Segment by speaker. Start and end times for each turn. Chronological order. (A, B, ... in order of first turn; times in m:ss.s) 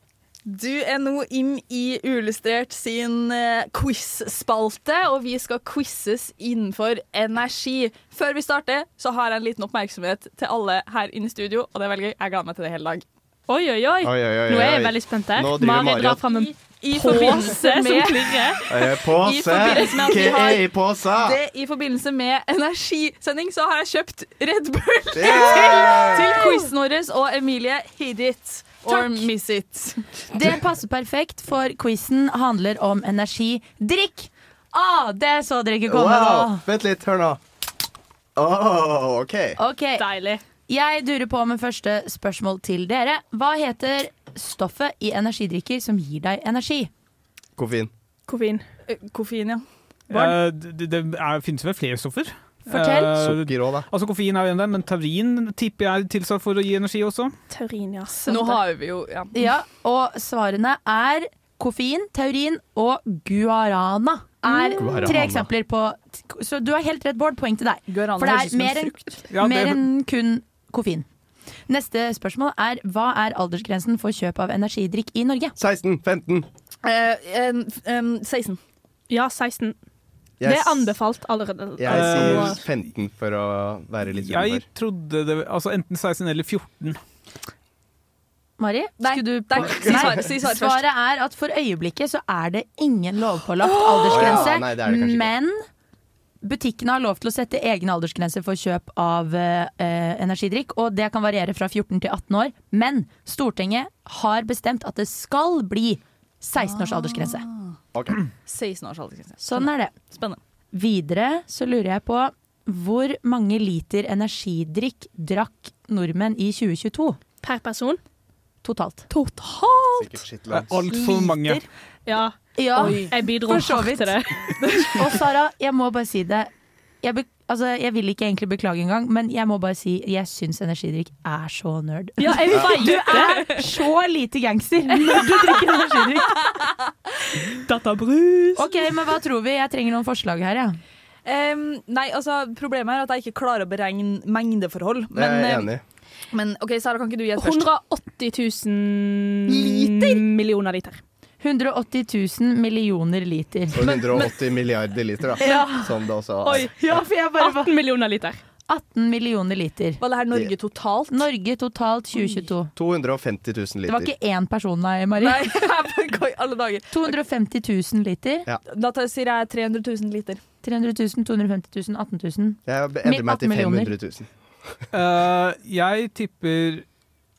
0:00.5-0:13.0 A
0:13.5-0:18.6 B
0:14.0-0:16.2 C
0:16.2-0:30.2 A
0:18.7-0:21.4 C
0:19.7-0:20.4 B
0:25.1-0:26.3 C
0:28.8-0:29.2 D
0:30.3-0:36.6 D
0:35.9-0:37.4 C
0:38.4-0:39.6 C
0:39.6-0:40.0 D
0:40.0-0:40.4 B
0:40.7-0:46.9 D
0:47.6-0:47.9 C
0:48.3-0:48.6 B
0:48.9-0:49.6 A
0:50.1-0:57.3 E
0:50.1-0:50.4 B
0:52.6-0:53.1 D
0:53.2-0:53.9 C
0:57.5-0:58.6 B
0:58.2-0:59.3 A
0:59.3-1:11.0 D
1:04.8-1:05.5 C
1:07.9-1:09.2 A
1:09.3-1:09.8 E
1:11.7-1:15.5 D
1:15.6-1:16.5 C
1:16.8-1:18.6 A
1:19.1-1:19.8 B
1:20.4-1:21.0 C
1:20.4-1:22.6 B
1:21.8-1:24.6 C
1:21.9-1:22.6 E
1:24.2-1:27.0 E
1:28.6-1:35.6 D
1:29.0-1:30.8 A
1:29.6-1:30.1 C
1:33.6-1:34.5 A
1:34.1-1:35.3 C
1:36.4-1:47.4 D
1:46.6-1:47.8 A
1:48.4-1:50.4 A
1:49.4-1:49.9 D
1:50.7-1:57.2 D
1:57.4-1:58.0 B
1:58.6-1:59.1 D
1:59.1-2:00.2 B
2:00.0-2:00.9 C
2:00.5-2:01.6 E
2:02.0-2:05.2 B
2:02.6-2:06.5 D
2:02.8-2:03.1 A
2:07.0-2:16.3 D
2:12.2-2:13.6 B
2:14.9-2:16.5 B
2:17.4-2:18.7 B
2:18.6-2:20.8 D
2:21.2-2:25.7 A
2:25.1-2:25.8 C
2:26.3-2:27.7 A
2:27.4-2:31.0 B
2:29.5-2:30.2 A
2:31.4-2:33.8 D
2:33.7-2:36.7 C
2:33.8-2:34.3 A
2:35.4-2:35.9 D
2:36.4-2:36.7 A
2:36.8-2:37.7 D
2:37.4-2:38.4 B
2:38.7-2:40.0 D
2:40.0-2:41.2 A
2:41.1-2:42.7 D
2:42.7-2:44.1 C
2:43.8-2:45.5 D
2:45.2-2:47.2 A
2:46.9-2:48.5 D
2:48.7-2:50.4 A
2:50.6-2:53.9 D
2:52.6-2:54.8 C
2:54.9-2:56.8 E